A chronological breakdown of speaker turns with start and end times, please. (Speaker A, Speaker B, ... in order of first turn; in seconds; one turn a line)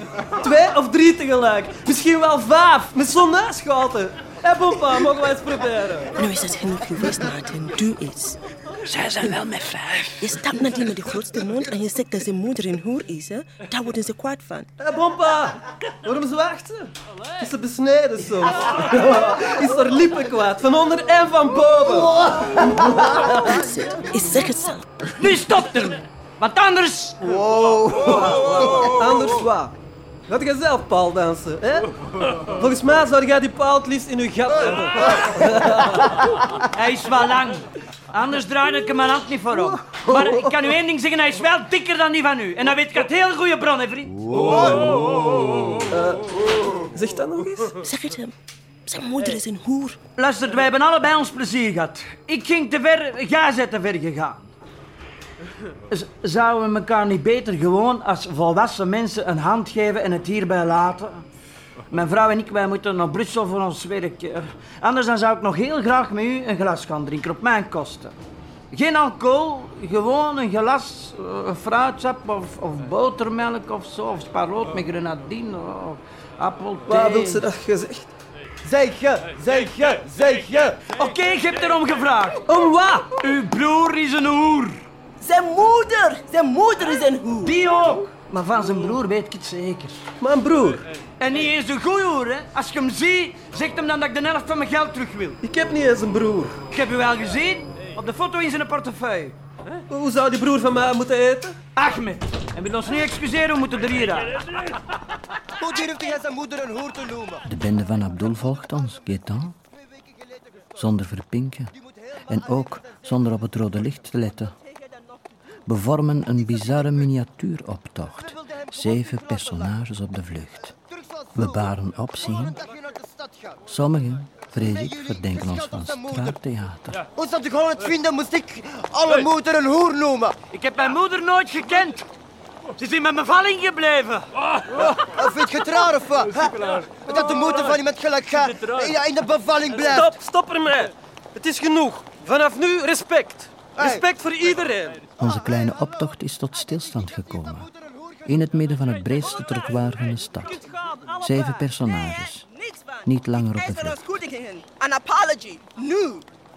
Speaker A: 0.4-6.2
Speaker B: 6.2-8.4
Speaker C: 8.8-10.3
Speaker B: 10.2-14.7
Speaker A: 14.8-22.2
Speaker D: 22.2-22.5
Speaker B: 23.2-24.9
Speaker C: 25.2-27.2
Speaker D: 27.3-28.9
Speaker A: 28.1-29.8
Speaker A: 30.3-31.9
Speaker A: 32.5-36.2
Speaker C: 36.7-44.2
Speaker A: 39.9-40.5
Speaker D: 44.3-45.5
Speaker A: 45.8-47.8
Speaker B: 47.8-48.3
Speaker B: 48.9-50.0
Speaker C: 50.2-54.4
Speaker C: 55.9-61.2
Speaker C: 61.9-68.2
Speaker C: 68.7-77.4
Speaker A: 76.9-78.1
Speaker D: 78.6-80.8
Speaker C: 80.9-82.4
Speaker A: 82.5-83.1
Speaker C: 83.1-84.8
Speaker B: 85.2-87.6
Speaker C: 87.4-90.0
Speaker A: 90.2-90.9
Speaker C: 91.2-95.4
Speaker A: 95.4-96.6
Speaker C: 96.7-99.3
Speaker A: 99.9-101.6
Speaker C: 101.8-104.4
Speaker D: 105.6-107.4
Speaker E: 107.4-109.5
Speaker E: 110.8-111.7
Speaker E: 112.3-114.5
Speaker B: 114.7-115.0
Speaker E: 115.7-120.8
Speaker D: 121.0-121.4
Speaker E: 121.3-122.6
Speaker D: 122.7-123.6
Speaker E: 123.7-127.0
Speaker D: 124.7-126.3
Speaker D: 127.1-130.4
Speaker C: 130.5-132.1
Speaker C: 132.8-134.3
Speaker D: 135.0-140.2
Speaker A: 139.8-145.0
Speaker D: 143.8-144.0
Speaker E: 145.2-147.7
Speaker E: 148.2-150.6
Speaker E: 151.2-152.4
Speaker B: 151.8-156.2
Speaker E: 153.0-154.0